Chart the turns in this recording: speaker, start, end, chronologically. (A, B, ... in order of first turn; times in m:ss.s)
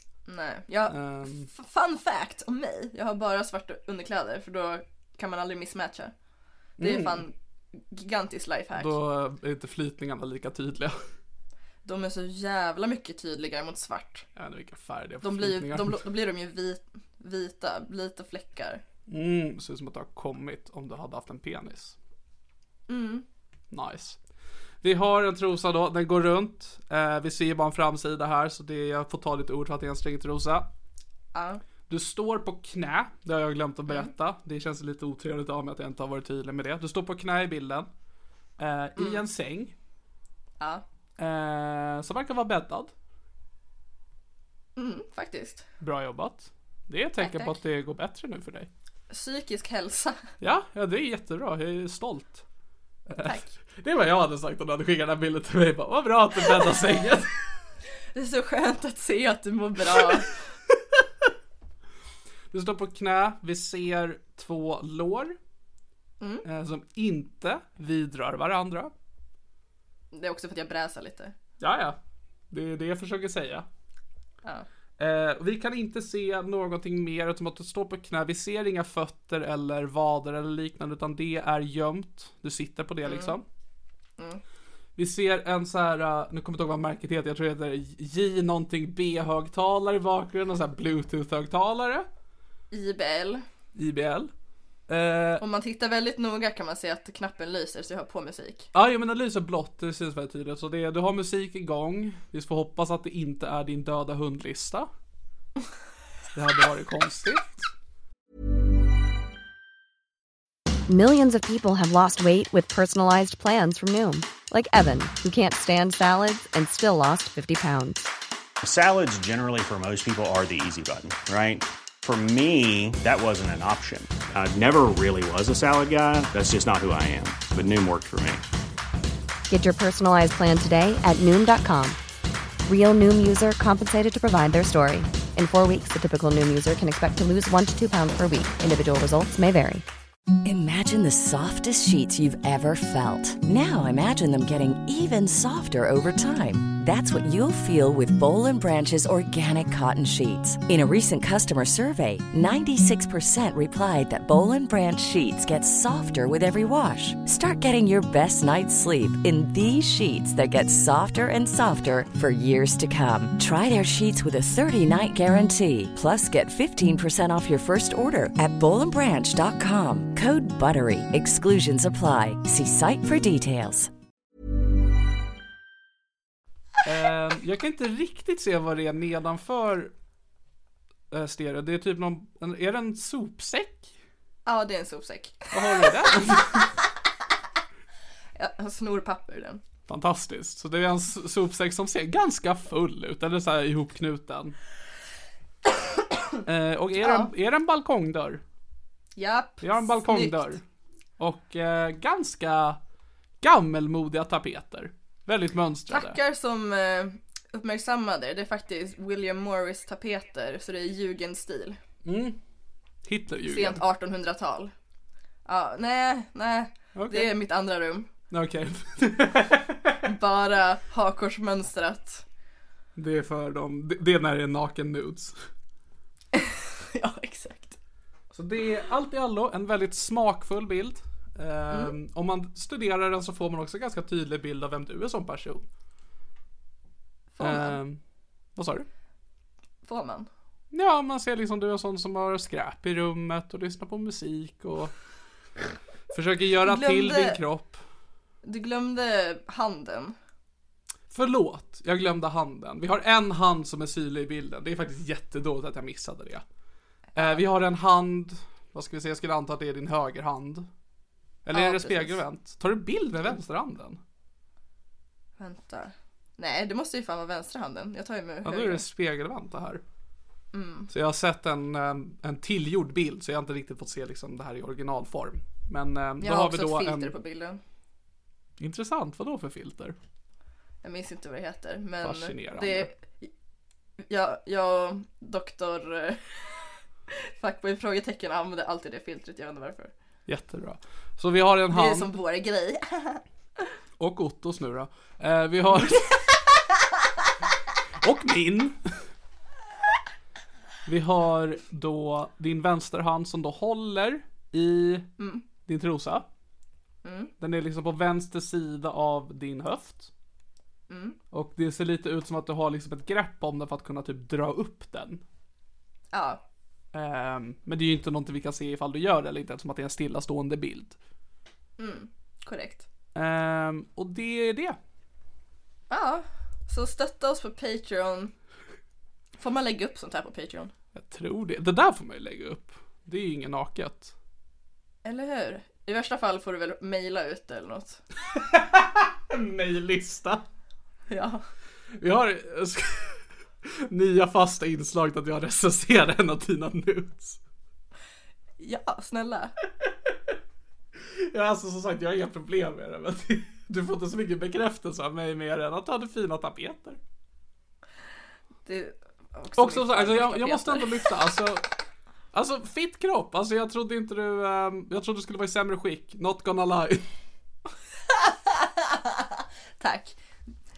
0:00.3-0:06.1 A
0:00.9-0:01.5 B
0:06.8-0:07.2 B
0:06.8-0:08.9 A
0:08.8-0:11.0 B
0:11.8-0:14.2 A
0:14.4-0:16.1 B
0:15.2-0:18.8 A
0:19.1-0:22.0 B
0:22.9-0:23.2 A
0:23.7-0:24.2 B
0:24.8-0:30.7 B
0:31.3-0:31.6 A
0:31.9-0:37.9 B
0:38.6-0:39.7 B
0:39.0-0:39.2 A
0:41.2-0:42.9 B
0:44.8-0:45.6 A
0:45.8-0:48.7 B
0:47.2-0:47.5 A
0:49.1-0:50.2 A
0:50.4-0:52.4 B
0:53.1-0:57.4 B
0:53.2-0:53.5 A
0:58.1-1:00.3 A
1:02.5-1:05.4 B
1:06.4-1:08.9 B
1:10.1-1:11.3 A
1:11.6-1:12.0 B
1:12.5-1:13.6 B
1:15.0-1:23.4 B
1:23.0-1:23.4 A
1:25.0-1:32.1 B
1:32.7-1:33.4 A
1:33.7-1:34.3 B
1:34.9-1:35.4 B
1:35.4-1:38.7 A
1:38.7-1:44.9 B
1:46.3-1:47.7 B
1:50.9-1:58.1 C
1:58.6-2:08.4 D
2:09.5-2:12.0 C
2:12.6-2:19.8 C
2:20.4-2:53.9 E
2:56.8-2:59.9 B
3:01.1-3:03.9 B
3:04.4-3:06.1 A
3:05.5-3:06.7 B
3:08.3-3:09.6 A
3:09.9-3:14.6 B
3:16.4-3:18.4 B
3:17.0-3:17.3 A
3:19.2-3:20.5 A
3:19.6-3:20.6 B
3:21.2-3:22.8 B
3:23.4-3:26.2 B
3:25.9-3:31.8 A
3:32.0-3:32.4 B
3:33.0-3:33.8 B
3:33.5-3:34.7 A
3:35.4-3:38.1 A
3:37.0-3:37.3 B
3:38.3-3:40.0 B
3:40.0-3:42.2 A
3:43.0-3:45.4 B
3:46.3-3:47.8 A
3:48.3-3:55.6 B
3:57.4-3:57.8 A
3:57.4-3:58.0 B
3:58.6-3:58.9 B
3:59.8-4:00.3 A
4:00.7-4:04.9 B
4:06.1-4:07.8 B
4:06.6-4:07.4 A
4:08.4-4:10.2 A
4:11.1-4:16.4 B
4:17.1-4:17.4 A
4:17.2-4:20.7 B
4:21.4-4:24.0 B
4:21.5-4:22.2 A
4:25.4-4:28.8 A
4:28.4-4:29.8 B
4:30.5-4:30.9 A
4:30.9-4:37.1 B
4:36.2-4:37.6 A
4:38.6-4:40.0 B
4:40.8-4:43.3 A
4:42.0-4:42.9 B
4:44.1-4:49.9 A
4:50.3-4:52.1 B
4:51.7-4:53.2 A
4:54.0-4:56.3 B
4:58.0-4:58.8 B
5:00.8-5:05.1 B
5:05.2-5:05.4 A
5:05.6-5:06.3 B
5:07.0-5:07.3 A
5:07.4-5:10.1 B
5:10.9-5:11.2 A
5:11.3-5:15.2 B
5:16.1-5:16.4 A
5:16.9-5:21.0 B
5:21.8-5:22.8 A
5:23.1-5:24.8 B
5:25.9-5:28.3 A
5:29.4-5:30.7 A
5:30.9-5:34.1 B
5:35.0-5:38.0 A
5:38.3-5:40.4 B
5:41.1-5:41.4 A
5:42.0-5:47.4 B
5:48.6-5:49.5 A
5:51.2-5:57.0 B
5:58.6-6:01.1 A
5:59.6-6:01.6 B
6:02.3-6:07.1 B
6:08.1-6:09.2 A
6:09.8-6:10.2 A